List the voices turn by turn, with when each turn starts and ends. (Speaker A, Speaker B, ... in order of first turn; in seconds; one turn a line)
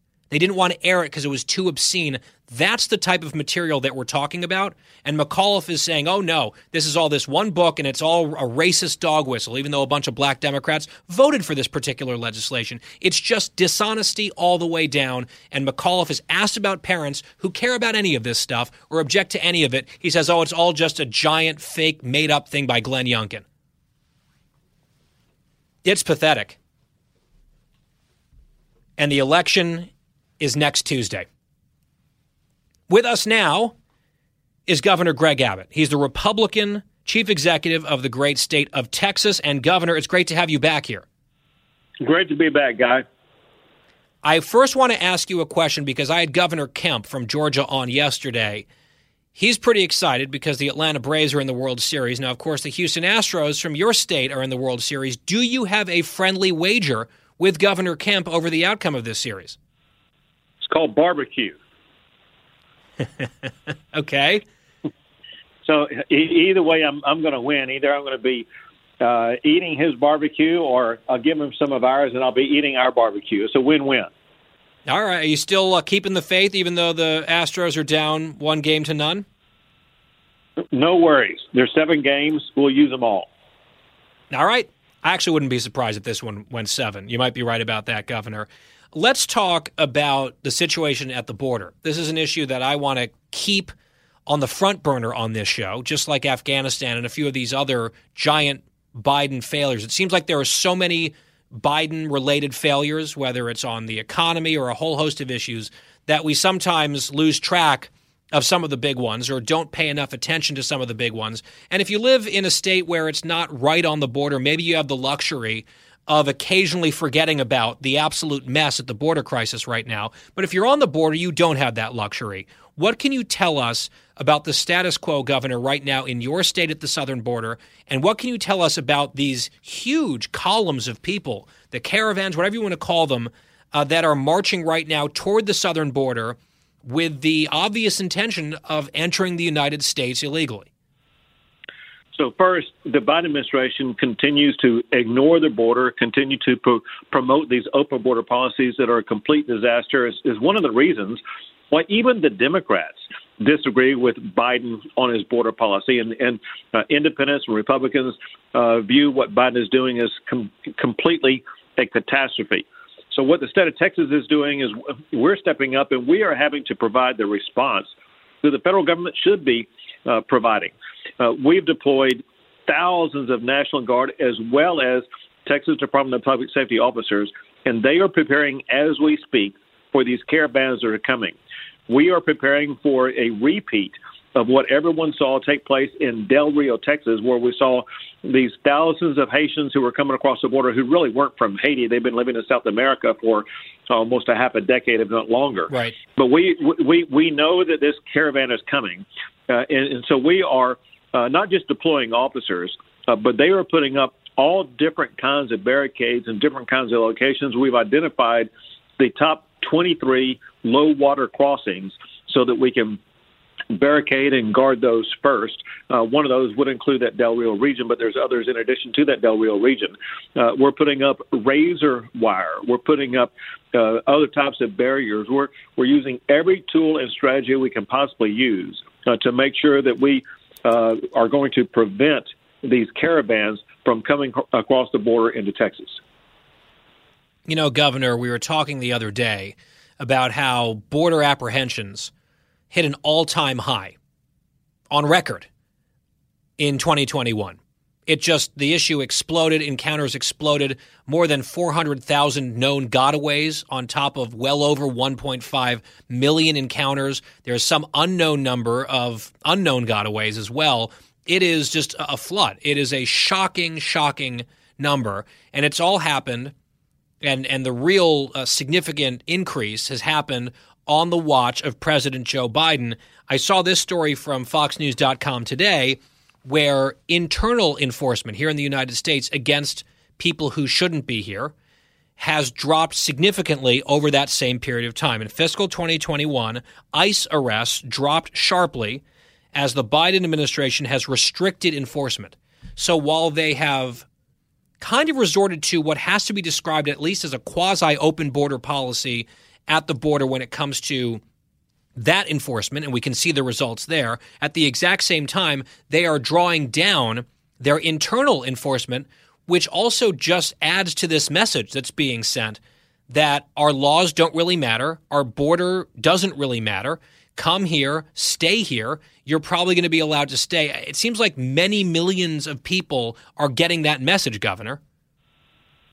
Speaker A: 0.3-23.4
Speaker A: 25.8-26.6
Speaker A: 29.0-31.2
Speaker A: 32.9-33.7
Speaker A: 34.7-41.0
Speaker B: 42.0-43.0
Speaker A: 44.2-48.7
Speaker A: 49.4-59.6
Speaker B: 60.6-61.5
Speaker A: 63.9-64.4
Speaker B: 65.6-68.5
Speaker B: 69.0-74.1
Speaker A: 74.8-79.2
Speaker B: 80.7-83.3
Speaker A: 84.3-93.7
Speaker A: 94.3-140.7
Speaker B: 142.1-151.2
Speaker B: 151.7-167.9
Speaker B: 168.4-181.3
Speaker B: 181.9-213.0
Speaker A: 195.7-195.9
Speaker B: 213.7-236.0
Speaker A: 237.5-242.1
Speaker A: 242.7-243.9
Speaker A: 244.9-245.5
Speaker A: 246.6-266.5
Speaker A: 267.2-281.5
Speaker A: 282.2-289.0
Speaker A: 289.5-294.1
Speaker A: 294.8-301.2
Speaker A: 301.9-324.8